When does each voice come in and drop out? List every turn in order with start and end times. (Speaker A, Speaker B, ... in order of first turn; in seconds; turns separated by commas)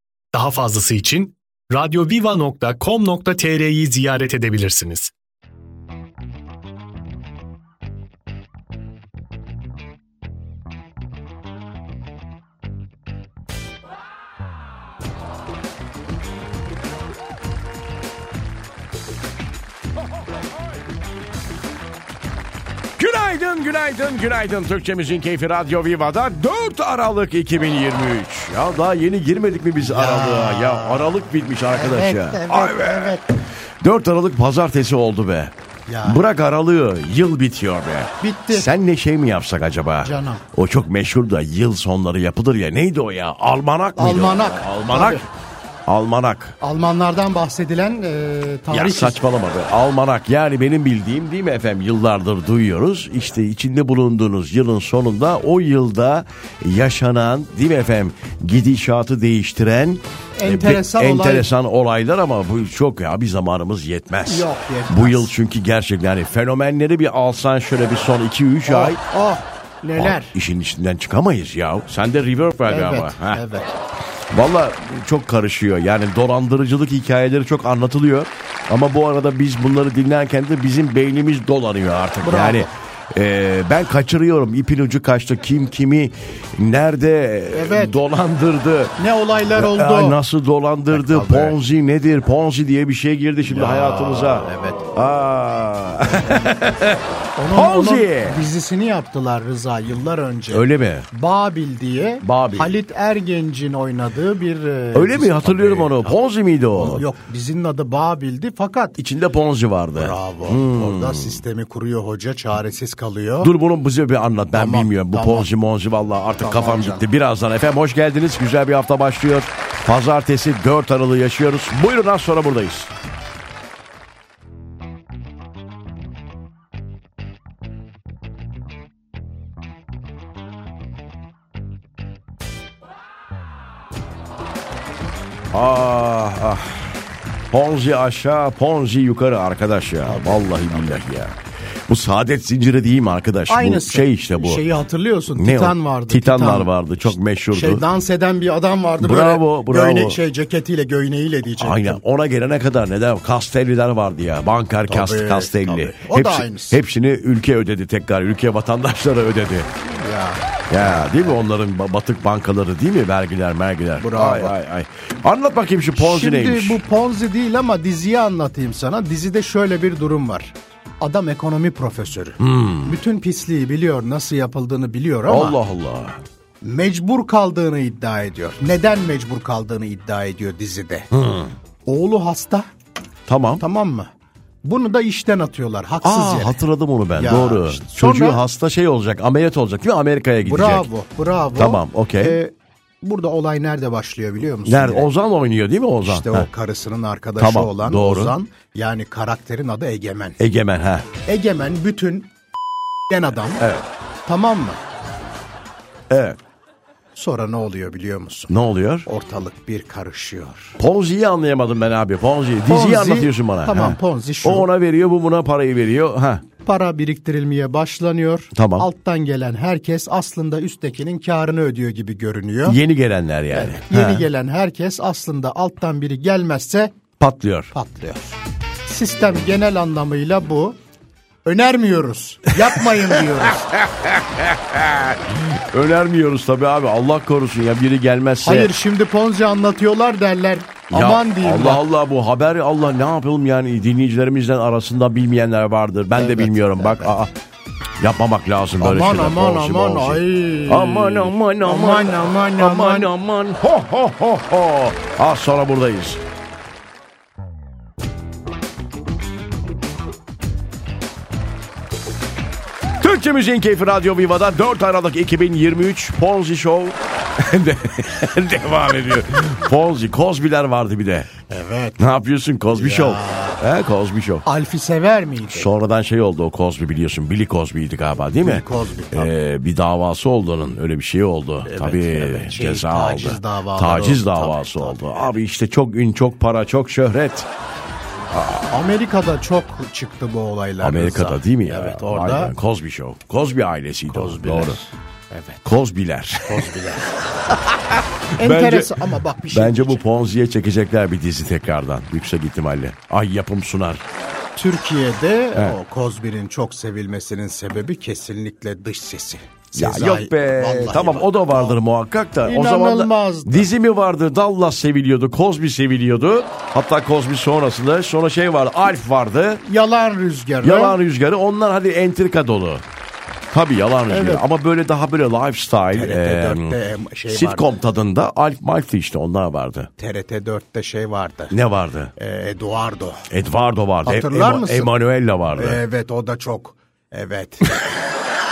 Speaker A: 0.3-5.1, Speaker B: 23.0-33.2, Speaker C: 29.8-33.3, Speaker B: 33.8-35.5, Speaker C: 35.9-36.2, Speaker B: 36.0-45.3, Speaker C: 38.2-38.7, Speaker C: 40.0-40.4, Speaker C: 44.0-45.2, Speaker B: 45.9-46.5, Speaker C: 46.6-49.2, Speaker B: 48.7-69.0, Speaker C: 60.4-61.5, Speaker C: 64.2-65.3, Speaker C: 68.6-70.3, Speaker B: 70.0-73.4, Speaker C: 72.6-73.7, Speaker B: 74.3-89.0, Speaker C: 82.2-82.7, Speaker C: 87.5-88.0, Speaker C: 89.0-90.2, Speaker B: 89.5-98.5, Speaker C: 90.9-91.6, Speaker C: 93.5-94.8, Speaker C: 97.3-106.2, Speaker B: 100.5-101.1, Speaker B: 102.2-102.8, Speaker B: 104.9-107.1, Speaker C: 106.7-109.0, Speaker B: 109.0-111.4, Speaker C: 110.0-113.5, Speaker B: 113.4-122.9, Speaker C: 114.5-115.5, Speaker C: 116.4-117.0, Speaker B: 135.5-137.0, Speaker B: 137.5-141.3, Speaker B: 141.9-144.6, Speaker C: 143.5-152.0, Speaker B: 145.3-147.8, Speaker B: 149.0-150.2, Speaker B: 151.6-159.7, Speaker C: 154.9-156.8, Speaker C: 159.8-161.3, Speaker B: 160.7-166.8, Speaker C: 164.0-164.5, Speaker C: 165.9-175.6, Speaker B: 172.4-172.9, Speaker B: 175.3-176.2, Speaker C: 176.6-181.1, Speaker B: 181.1-181.5, Speaker C: 181.8-182.7, Speaker B: 183.3-183.6, Speaker C: 183.6-184.1, Speaker C: 184.6-186.6, Speaker B: 186.0-190.9, Speaker C: 187.1-188.4, Speaker C: 190.4-195.1, Speaker B: 191.6-192.4, Speaker B: 194.6-196.5, Speaker C: 196.0-200.4, Speaker B: 197.4-198.3, Speaker B: 200.4-201.1, Speaker C: 201.2-202.3, Speaker C: 203.1-203.7, Speaker B: 203.6-203.8, Speaker C: 204.2-204.8, Speaker B: 206.1-206.4, Speaker C: 207.1-210.8, Speaker B: 208.5-209.1, Speaker B: 210.8-216.4, Speaker C: 212.7-214.7, Speaker C: 216.6-222.8, Speaker B: 218.5-218.9, Speaker B: 222.6-224.3, Speaker C: 223.5-226.9, Speaker B: 227.2-227.7, Speaker C: 227.7-230.8, Speaker C: 231.4-233.7, Speaker B: 232.7-238.7, Speaker C: 238.4-241.8, Speaker B: 240.9-247.3, Speaker C: 246.1-247.1, Speaker B: 248.0-256.2, Speaker C: 248.8-253.1, Speaker B: 263.0-271.3, Speaker C: 271.5-272.1, Speaker B: 272.0-274.4, Speaker C: 272.7-273.6, Speaker C: 274.4-275.7, Speaker B: 275.5-287.5, Speaker C: 278.4-279.3, Speaker C: 281.6-285.3, Speaker B: 288.3-288.6, Speaker C: 288.7-292.5, Speaker B: 290.8-294.8, Speaker C: 294.1-295.6, Speaker B: 295.6-296.6, Speaker C: 296.4-297.1, Speaker B: 297.5-304.0, Speaker C: 298.4-300.0, Speaker C: 304.6-311.8, Speaker B: 309.8-319.6, Speaker C: 312.4-313.7, Speaker C: 319.6-321.0, Speaker B: 320.6-322.8, Speaker B: 323.5-326.8, Speaker C: 324.1-324.4, Speaker C: 325.9-327.7, Speaker B: 327.3-329.9, Speaker C: 330.0-331.6, Speaker B: 331.5-332.1, Speaker C: 332.2-333.2, Speaker B: 333.3-335.8, Speaker C: 334.0-334.9, Speaker C: 335.5-337.7